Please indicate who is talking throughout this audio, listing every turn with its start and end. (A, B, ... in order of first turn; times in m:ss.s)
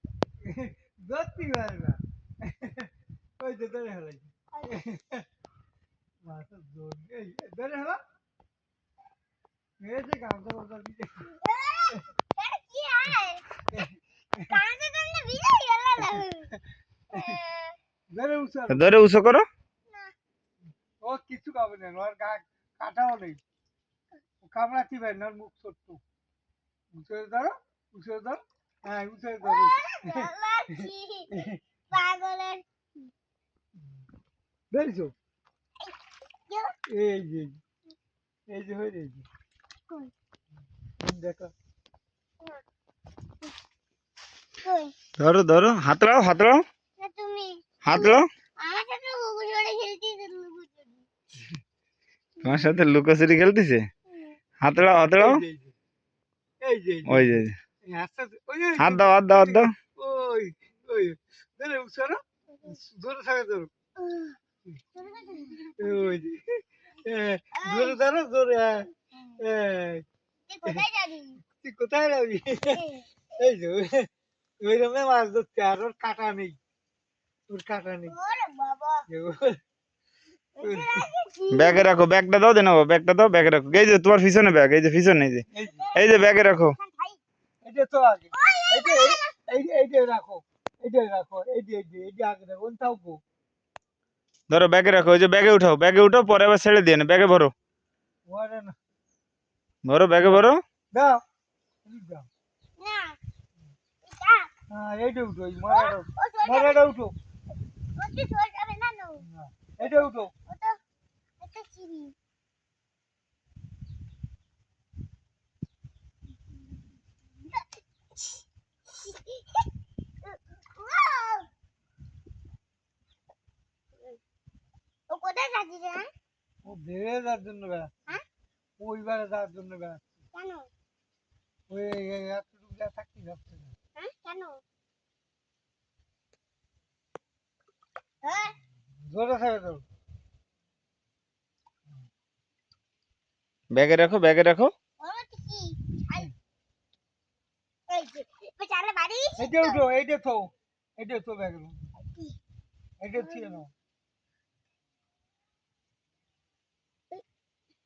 0:00.4-0:05.2 A
0:06.2-0:08.0 A
0:09.8-0:11.3 A
0:11.3-0:13.4 B
0:13.7-0:14.6 A
0:14.4-0:16.5 B
0:17.1-0:17.8 B
0:18.1-0:19.0 A
0:18.7-0:19.5 C
0:21.0-0:23.4 A
0:24.4-0:26.0 A
0:26.9-0:31.6 A
0:29.4-0:31.3 B
0:31.9-0:33.1 B
0:34.7-0:35.1 A
0:36.5-0:36.8 B
0:36.9-0:37.6 A
0:38.5-0:39.2 A
0:41.0-0:41.5 A
0:44.6-0:44.9 B
0:45.2-0:46.6 C
0:47.0-0:51.0 B
0:47.8-0:48.2 C
0:52.4-0:53.8 C
0:54.6-0:55.4 C
0:55.0-0:55.7 A
0:56.6-1:03.7 A
0:57.1-0:57.5 C
0:58.8-0:59.7 C
1:04.0-1:04.4 B
1:04.9-1:05.9 B
1:05.8-1:10.0 A
1:07.6-1:08.0 B
1:10.5-1:11.4 B
1:11.5-1:12.8 A
1:12.7-1:13.1 B
1:13.4-1:14.1 A
1:14.6-1:16.6 A
1:17.5-1:18.1 A
1:18.1-1:19.0 B
1:19.1-1:19.6 A
1:20.6-1:21.9 B
1:20.6-1:21.0 A
1:21.5-1:26.8 C
1:25.5-1:25.8 A
1:25.8-1:27.2 B
1:27.6-1:33.2 A
1:28.3-1:29.3 B
1:34.5-1:37.5 C
1:38.2-1:38.8 A
1:39.8-1:40.6 C
1:40.2-1:41.2 A
1:41.8-1:42.3 A
1:42.8-1:43.2 B
1:44.0-1:44.5 B
1:44.7-1:47.1 A
1:45.7-1:46.9 B
1:48.0-1:49.2 B
1:49.2-1:50.3 A
1:49.8-1:50.8 B
1:51.4-1:52.1 B
1:59.0-1:59.7 B
2:00.2-2:01.5 B
2:05.1-2:06.1 B
2:06.6-2:07.9 A
2:08.8-2:10.1 A
2:10.3-2:10.7 B
2:11.7-2:13.7 A
2:14.0-2:14.6 B
2:18.2-2:18.5 B
2:19.0-2:19.8 A
2:23.7-2:24.7 C
2:25.0-2:26.3 B
2:27.9-2:29.8 B
2:29.4-2:31.8 A
2:32.0-2:32.4 B
2:33.0-2:33.7 A
2:33.1-2:33.6 B